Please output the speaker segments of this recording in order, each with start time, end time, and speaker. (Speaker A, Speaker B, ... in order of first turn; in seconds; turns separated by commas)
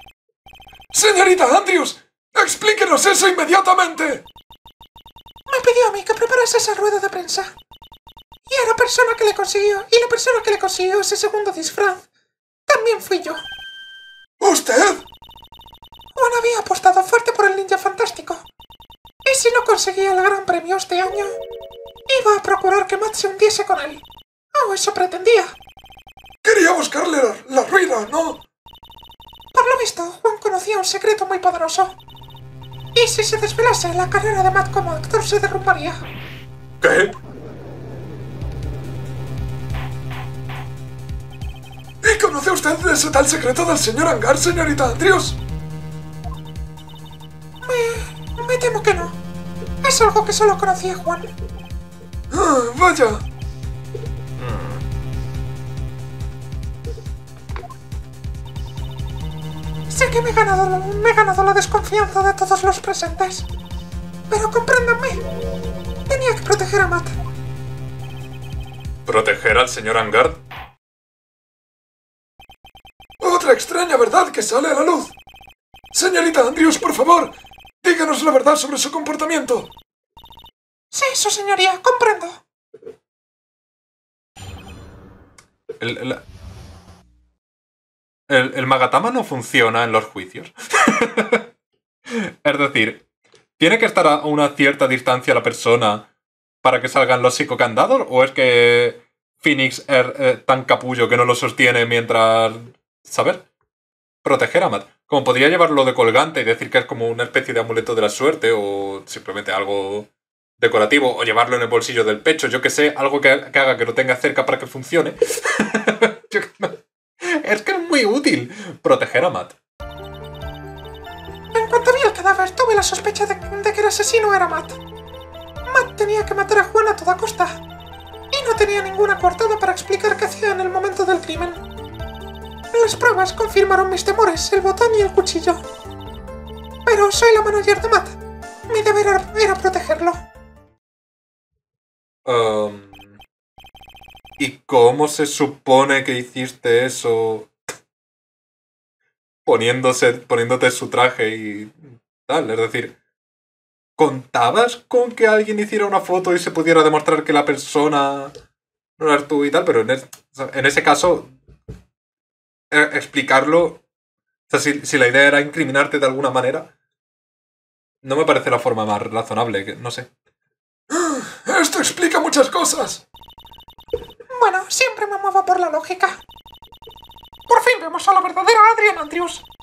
Speaker A: 0.9-4.2, Speaker B: 5.5-7.5, Speaker B: 8.5-12.0, Speaker B: 12.7-13.4, Speaker A: 14.4-15.0, Speaker B: 16.1-18.4, Speaker B: 19.2-21.4, Speaker B: 22.1-24.0, Speaker B: 24.5-25.5, Speaker A: 26.4-28.4, Speaker B: 29.5-31.9, Speaker B: 32.9-36.0, Speaker C: 36.8-37.1, Speaker A: 42.0-45.4, Speaker B: 47.6-49.1, Speaker B: 49.8-51.3, Speaker A: 52.3-53.2, Speaker C: 54.4-54.8, Speaker B: 59.9-63.5, Speaker B: 64.3-65.2, Speaker B: 66.1-67.1, Speaker C: 69.0-70.4, Speaker A: 73.2-75.1, Speaker A: 75.9-79.7, Speaker B: 80.9-82.4, Speaker C: 85.8-86.2, Speaker C: 88.3-91.5, Speaker C: 92.1-93.0, Speaker C: 93.6-96.1, Speaker C: 96.6-103.4, Speaker C: 104.2-119.5, Speaker B: 121.5-124.8, Speaker B: 125.7-127.6, Speaker B: 128.3-131.6, Speaker B: 132.7-135.6, Speaker B: 136.8-138.2, Speaker B: 138.7-140.2, Speaker C: 142.2-143.2, Speaker C: 144.4-147.5, Speaker C: 149.4-152.9, Speaker C: 154.0-158.3, Speaker C: 159.0-161.3, Speaker C: 162.7-163.8, Speaker C: 164.5-166.7, Speaker C: 168.0-170.1, Speaker A: 170.9-173.0, Speaker B: 174.3-176.2, Speaker B: 177.5-179.4